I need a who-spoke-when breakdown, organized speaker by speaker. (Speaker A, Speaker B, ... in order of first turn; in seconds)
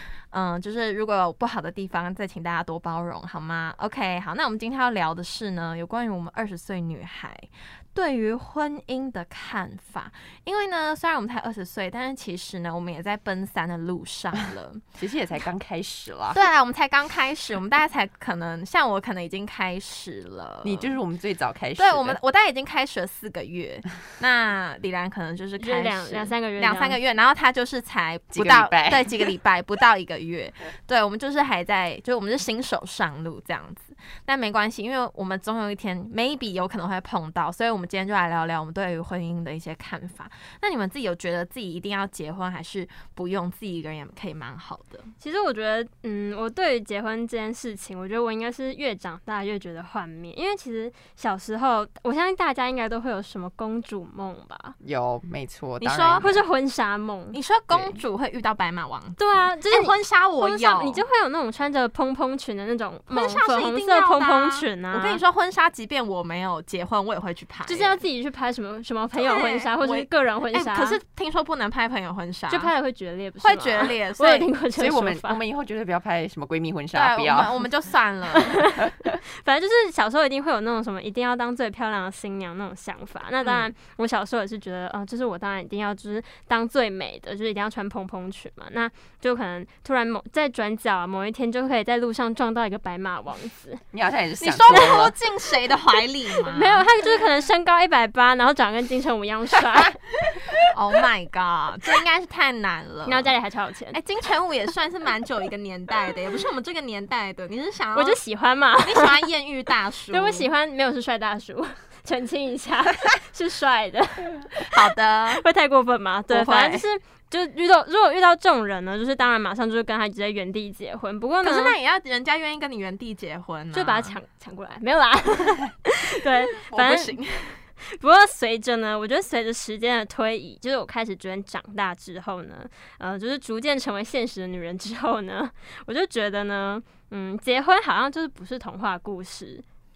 Speaker A: 0.3-14.8, 16.3-20.9, 21.8-45.1, 55.8-56.3, 57.3-61.0, 63.1-68.0, 69.2-72.7, 73.4-74.5, 76.9-78.6, 83.4-83.7, 94.4-96.9, 100.6-103.3, 103.9-108.2, 108.8-110.5, 114.6-115.4, 116.3-116.8, 121.4-124.2, 126.7-127.6
Speaker B: 15.0-16.4, 20.6-22.2, 28.3-29.3, 54.8-56.4, 57.7-58.0, 74.8-77.6, 78.9-79.2, 93.9-95.2
Speaker C: 25.6-27.0, 45.2-54.8, 56.2-57.4, 59.2-65.2, 67.7-71.0, 72.5-75.4, 79.4-93.8, 96.5-100.0, 103.0-104.0, 108.0-109.2, 110.1-114.7, 115.4-121.8, 123.7-127.2, 127.8-139.6